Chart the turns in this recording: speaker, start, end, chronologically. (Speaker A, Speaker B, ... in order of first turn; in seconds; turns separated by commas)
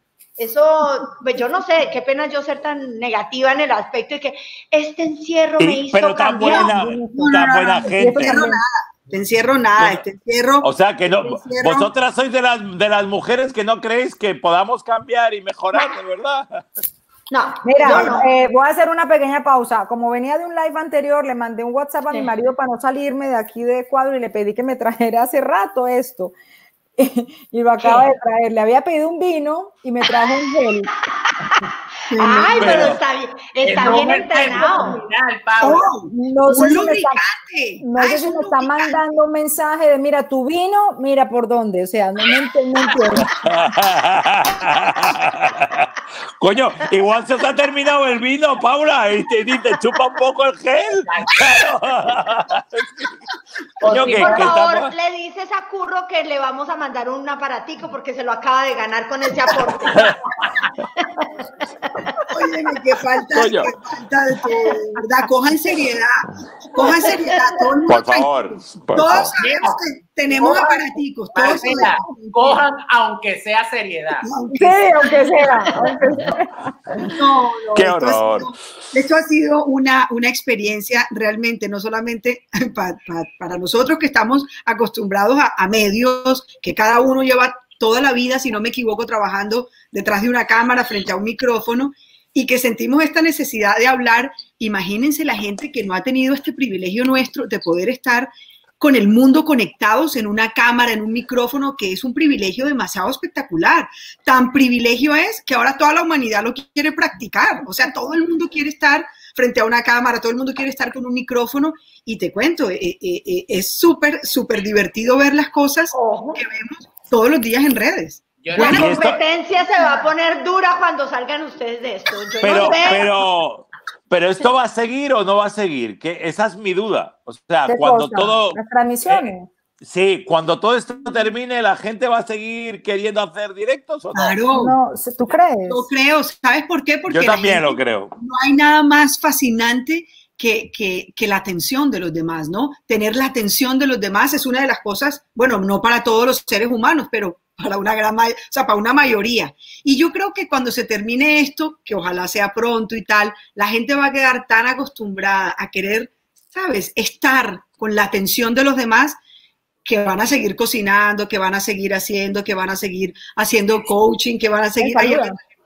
Speaker A: 0.4-6.7, Speaker B: 5.6-8.4, Speaker C: 6.4-11.9, Speaker D: 6.4-7.4, Speaker D: 8.0-8.6, Speaker B: 9.8-10.0, Speaker B: 10.6-16.6, Speaker A: 17.3-18.3, Speaker D: 17.6-26.3, Speaker C: 17.8-18.1, Speaker D: 27.0-30.9, Speaker A: 27.8-28.1, Speaker A: 31.2-35.0, Speaker C: 32.1-32.9, Speaker B: 32.6-33.0, Speaker E: 33.6-35.9, Speaker C: 35.6-39.0, Speaker D: 36.1-37.2, Speaker D: 37.8-43.4, Speaker B: 43.3-53.1, Speaker E: 51.1-51.5, Speaker E: 53.8-54.5, Speaker B: 53.8-54.9, Speaker A: 54.0-62.3, Speaker B: 59.9-60.1, Speaker C: 62.2-72.6, Speaker B: 63.3-63.7, Speaker A: 66.7-67.7, Speaker B: 67.9-69.3, Speaker E: 69.4-74.3, Speaker C: 74.2-74.9, Speaker D: 74.5-77.1, Speaker A: 75.7-76.3, Speaker C: 77.0-118.9, Speaker B: 77.7-78.5, Speaker A: 115.9-116.4, Speaker E: 118.4-118.9, Speaker A: 118.5-123.2, Speaker B: 118.6-119.2, Speaker B: 122.4-129.3, Speaker D: 127.7-129.5, Speaker B: 129.8-134.4, Speaker C: 134.1-134.7, Speaker D: 134.5-135.9, Speaker C: 135.7-159.2, Speaker B: 137.1-138.1, Speaker C: 159.8-165.4, Speaker D: 164.8-165.4